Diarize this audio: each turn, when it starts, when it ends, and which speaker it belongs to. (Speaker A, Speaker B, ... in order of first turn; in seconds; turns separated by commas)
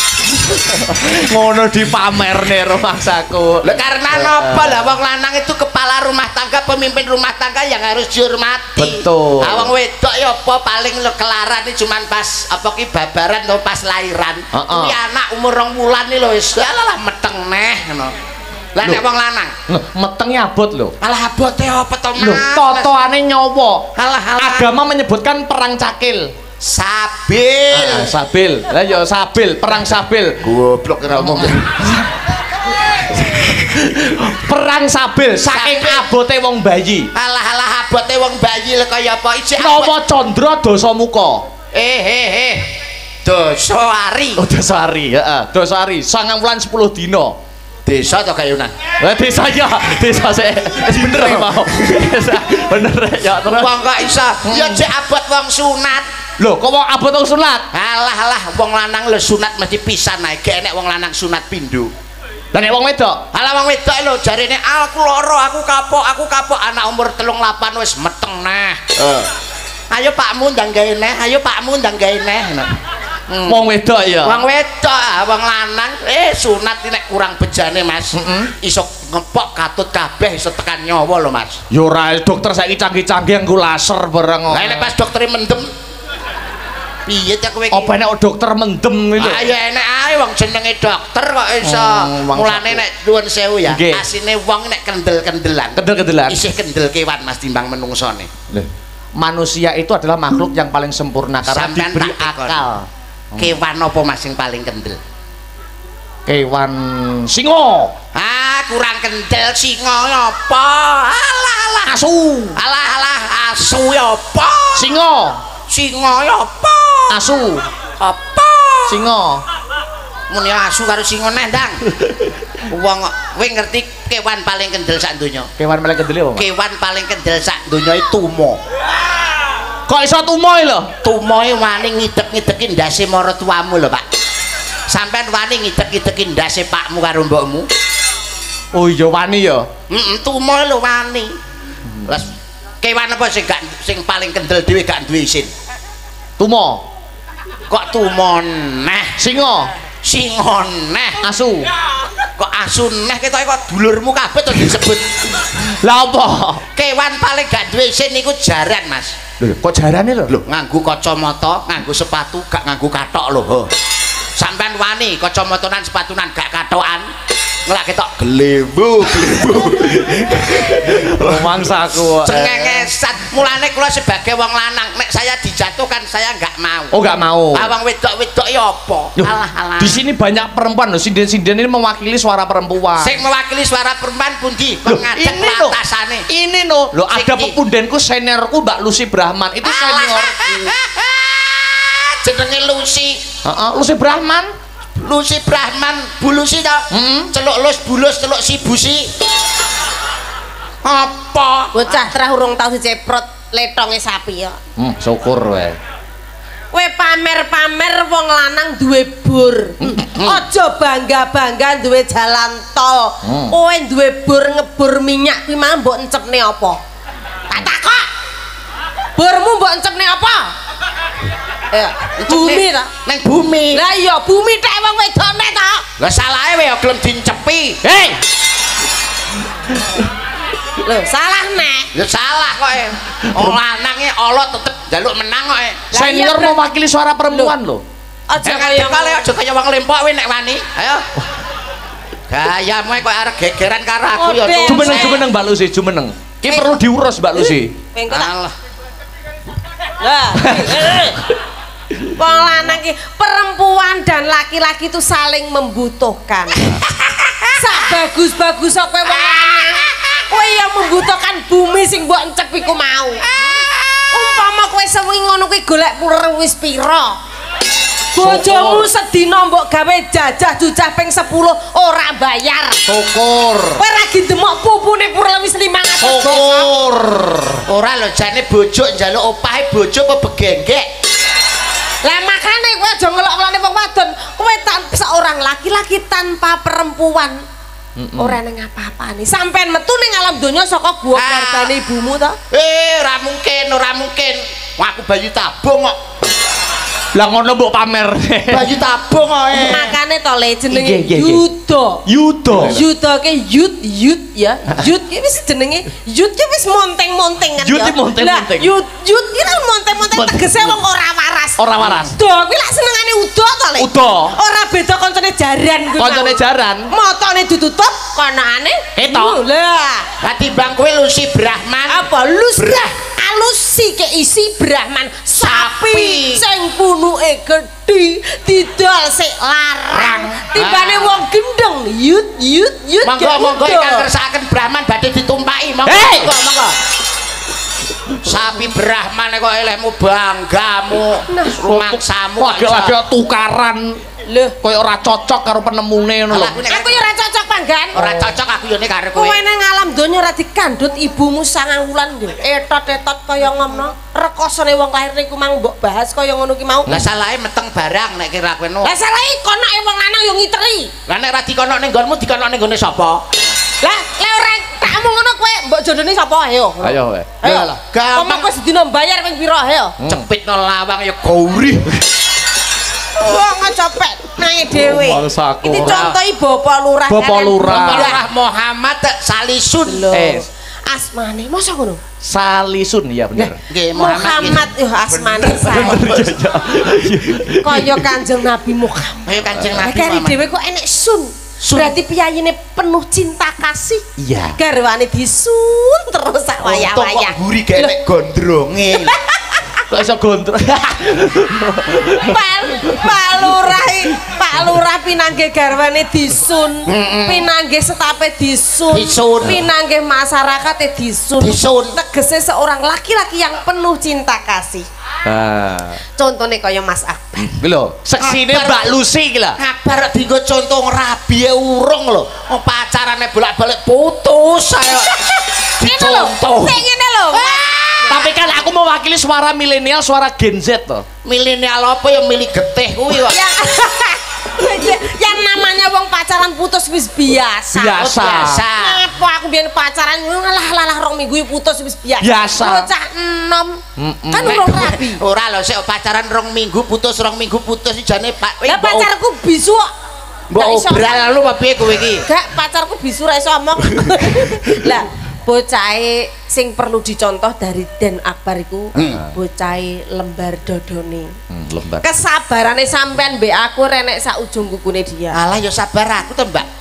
Speaker A: 0.4-4.7, Speaker B: 3.6-18.1, Speaker A: 8.8-9.7, Speaker A: 14.5-15.0, Speaker B: 18.8-19.5, Speaker A: 19.7-20.9, Speaker B: 21.0-22.9, Speaker A: 22.2-26.3, Speaker B: 24.0-24.7, Speaker B: 26.6-28.1, Speaker A: 27.7-30.5, Speaker B: 30.4-31.8, Speaker A: 31.4-32.1, Speaker A: 33.1-37.1, Speaker B: 35.5-36.0, Speaker B: 37.1-40.0, Speaker A: 39.6-41.5, Speaker B: 41.7-42.7, Speaker B: 43.2-44.4, Speaker A: 44.4-47.4, Speaker B: 47.9-48.7, Speaker A: 49.0-53.7, Speaker B: 50.9-52.0, Speaker B: 53.5-56.1, Speaker A: 54.5-54.8, Speaker A: 56.4-57.7, Speaker B: 57.7-61.9, Speaker A: 62.5-63.2, Speaker B: 63.3-69.3, Speaker B: 69.9-72.7, Speaker B: 73.3-73.6, Speaker A: 73.5-74.4, Speaker B: 74.2-81.6, Speaker A: 78.1-78.5, Speaker A: 81.7-84.9, Speaker B: 84.5-85.7, Speaker B: 87.1-87.9, Speaker A: 87.7-89.5, Speaker B: 89.2-98.3, Speaker A: 91.6-92.8, Speaker A: 93.7-94.0, Speaker A: 95.8-96.4, Speaker A: 98.5-102.8, Speaker B: 101.5-102.7, Speaker B: 103.4-105.0, Speaker A: 106.3-108.0, Speaker B: 108.1-112.0, Speaker A: 111.9-112.6, Speaker B: 112.6-115.0, Speaker A: 114.7-115.4, Speaker B: 115.7-117.3, Speaker A: 117.1-117.7, Speaker B: 118.0-119.0, Speaker A: 118.9-119.4, Speaker B: 120.3-121.8, Speaker B: 122.7-125.5, Speaker A: 125.6-126.5, Speaker B: 126.4-128.6, Speaker A: 129.9-130.9, Speaker B: 131.0-134.0, Speaker B: 134.9-137.7, Speaker A: 138.7-139.7, Speaker B: 139.9-141.4, Speaker B: 142.1-145.5, Speaker A: 146.4-146.8, Speaker B: 147.7-149.2, Speaker A: 149.2-149.7, Speaker B: 150.0-151.2, Speaker A: 151.2-151.7, Speaker B: 152.4-155.5, Speaker A: 155.6-156.6, Speaker B: 156.8-159.2, Speaker A: 159.4-160.4, Speaker B: 160.3-163.7, Speaker B: 164.4-167.1, Speaker B: 167.7-177.0, Speaker A: 169.6-172.9, Speaker A: 176.9-177.7, Speaker B: 177.5-180.0, Speaker A: 179.2-183.2, Speaker B: 183.0-186.3, Speaker A: 184.8-185.8, Speaker A: 186.3-190.5, Speaker B: 187.1-187.6, Speaker B: 189.6-193.3, Speaker A: 193.4-194.5, Speaker B: 195.0-199.1, Speaker A: 196.9-197.3, Speaker B: 200.8-202.1, Speaker C: 201.7-204.6, Speaker A: 204.8-205.8, Speaker C: 206.7-216.8, Speaker A: 209.8-210.1, Speaker B: 210.2-210.4, Speaker A: 213.2-213.6, Speaker C: 217.5-218.1, Speaker C: 219.2-220.5, Speaker C: 221.7-222.9, Speaker B: 222.2-223.8, Speaker C: 223.7-225.8, Speaker B: 226.0-227.8, Speaker A: 227.8-228.2, Speaker C: 230.8-231.9, Speaker B: 231.9-235.9, Speaker A: 233.3-233.6, Speaker C: 235.9-236.6, Speaker A: 235.9-237.8, Speaker C: 237.3-237.6, Speaker C: 238.3-239.3, Speaker B: 238.4-241.1, Speaker B: 242.3-245.2, Speaker C: 244.1-245.2, Speaker A: 244.7-247.7, Speaker C: 246.5-246.8, Speaker C: 247.5-248.3, Speaker B: 248.1-248.5, Speaker C: 250.0-251.2, Speaker A: 250.4-251.2, Speaker C: 252.2-256.8, Speaker C: 257.6-267.2, Speaker C: 268.1-272.8, Speaker A: 268.2-268.9, Speaker A: 272.9-273.8, Speaker C: 273.8-276.7, Speaker A: 276.0-277.6, Speaker B: 277.7-280.9, Speaker C: 282.0-287.4, Speaker A: 288.0-288.4, Speaker C: 288.2-292.4, Speaker B: 291.1-291.7, Speaker B: 292.5-296.0, Speaker A: 297.1-298.7, Speaker B: 298.5-300.0, Speaker C: 299.5-302.0, Speaker A: 300.7-301.4, Speaker A: 302.1-302.8, Speaker C: 302.7-320.1, Speaker A: 307.6-308.7, Speaker A: 310.1-310.8, Speaker A: 311.6-312.2, Speaker B: 311.8-312.1, Speaker A: 313.8-314.4, Speaker A: 316.0-316.9, Speaker A: 319.0-319.4, Speaker B: 320.2-322.9, Speaker C: 321.9-334.1, Speaker B: 325.4-326.4, Speaker B: 329.9-331.2, Speaker B: 333.0-336.8, Speaker A: 335.9-336.3, Speaker B: 338.2-343.0, Speaker C: 341.3-341.6, Speaker A: 341.6-344.0, Speaker C: 344.3-344.6, Speaker A: 344.6-346.6, Speaker B: 346.3-347.1, Speaker C: 346.7-348.2, Speaker B: 347.9-349.4, Speaker C: 349.1-356.9, Speaker B: 356.9-358.9, Speaker C: 358.8-360.9, Speaker B: 361.1-363.2, Speaker C: 363.8-369.9, Speaker A: 366.8-367.3, Speaker B: 367.4-368.5, Speaker A: 370.0-370.2, Speaker B: 370.1-371.9, Speaker C: 373.2-378.2, Speaker A: 374.7-376.1, Speaker B: 375.7-376.2, Speaker A: 377.1-378.2, Speaker B: 377.7-380.2, Speaker C: 379.9-382.0, Speaker A: 380.1-380.4, Speaker A: 382.2-383.6, Speaker C: 383.4-386.1, Speaker B: 383.7-386.3, Speaker A: 385.6-388.1, Speaker C: 387.6-389.2, Speaker B: 389.2-390.4, Speaker C: 389.8-394.0, Speaker B: 391.6-392.0, Speaker A: 394.2-394.6, Speaker C: 394.6-398.0, Speaker B: 396.6-399.1, Speaker C: 398.9-399.6, Speaker A: 399.9-402.4, Speaker C: 402.1-414.9, Speaker A: 403.1-403.7, Speaker B: 406.9-407.5, Speaker B: 408.9-409.6, Speaker B: 411.4-412.0, Speaker A: 415.2-416.0, Speaker C: 416.2-417.6, Speaker A: 417.6-419.6, Speaker B: 418.2-418.9, Speaker B: 419.6-425.2, Speaker B: 425.8-428.3, Speaker C: 425.8-428.3, Speaker A: 428.1-431.1, Speaker B: 431.2-433.4, Speaker C: 433.2-445.2, Speaker A: 437.7-438.6, Speaker B: 437.8-439.0, Speaker A: 442.2-442.9, Speaker A: 444.0-444.7, Speaker B: 444.4-449.1, Speaker C: 448.6-449.9, Speaker B: 450.5-452.3, Speaker C: 450.6-451.3, Speaker C: 452.3-461.3, Speaker B: 458.9-459.2, Speaker A: 461.5-462.1, Speaker C: 462.0-465.4, Speaker B: 465.3-466.7